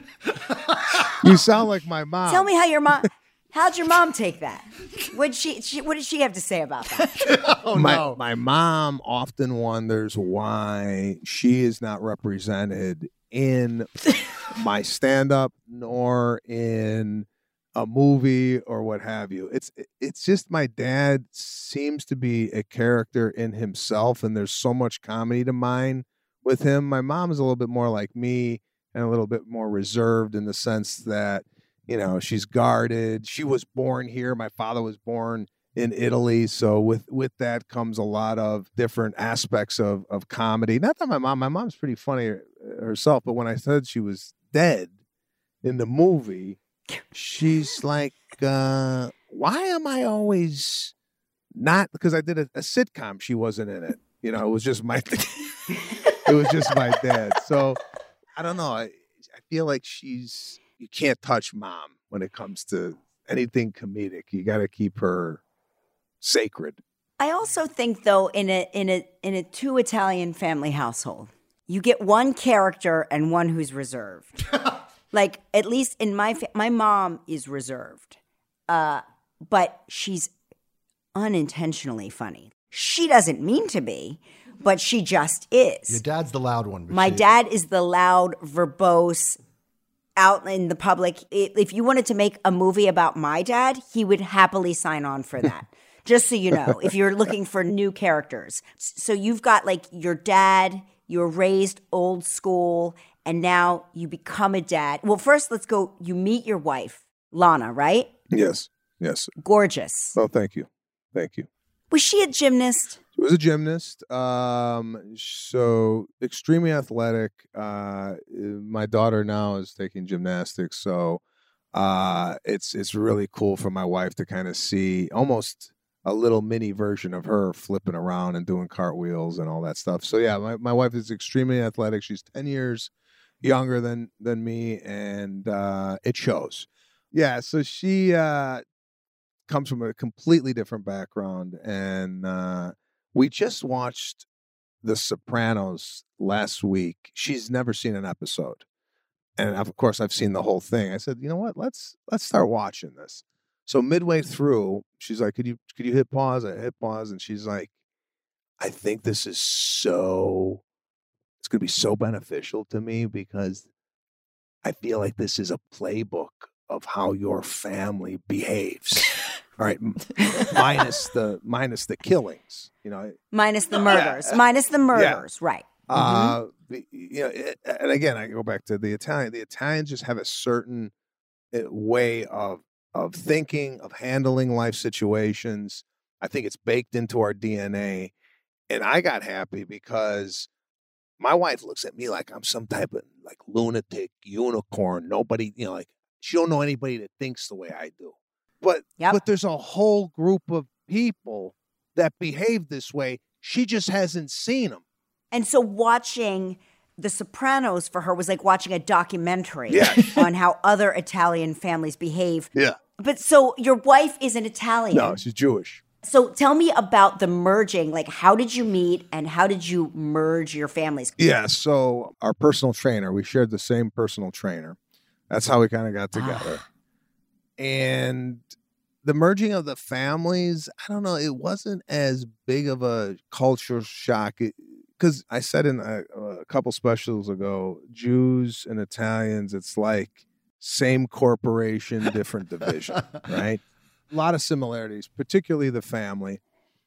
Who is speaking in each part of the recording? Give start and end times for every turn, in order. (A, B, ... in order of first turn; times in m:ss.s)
0:00.4-0:01.1 A
0:01.2-0:02.5 B
0:02.3-0:07.3 C
0:07.2-0:08.2 A
0:07.7-0:44.9 B
0:45.6-0:46.6 B
0:47.1-0:50.9 B
0:51.5-0:55.6 B
0:56.2-0:57.8 B
0:58.4-1:05.4 B
1:06.2-1:06.8 B
1:07.2-1:14.3 C
1:15.1-1:20.3 C
1:21.2-1:26.0 C
1:25.9-1:27.3 A
1:26.9-1:29.4 C
1:30.2-1:48.1 C
1:48.3-1:49.3 B
1:49.4-1:50.2 C
1:50.2-1:51.5 B
1:51.9-1:53.0 C
1:53.2-2:01.2 B
2:01.7-2:12.9 B
2:13.4-2:18.6 B
2:19.5-2:24.3 B
2:24.8-2:28.6 B
2:29.4-2:37.7 B
2:38.6-2:40.6 B
2:41.4-2:43.7 B
2:44.6-2:53.2 B
2:53.3-2:56.4 C
2:53.9-2:54.4 B
2:54.9-2:55.2 B
2:55.9-3:00.9 B
3:01.5-3:08.1 B
3:08.7-3:10.5 B
3:11.2-3:24.8 B
3:25.3-3:35.2 C
3:29.7-3:30.2 B
3:34.9-3:35.8 B
3:36.0-3:41.2 C
3:41.2-3:44.8 B
3:45.3-3:46.6 B
3:46.2-3:46.6 C
3:47.6-3:48.5 B
3:49.0-4:06.4 B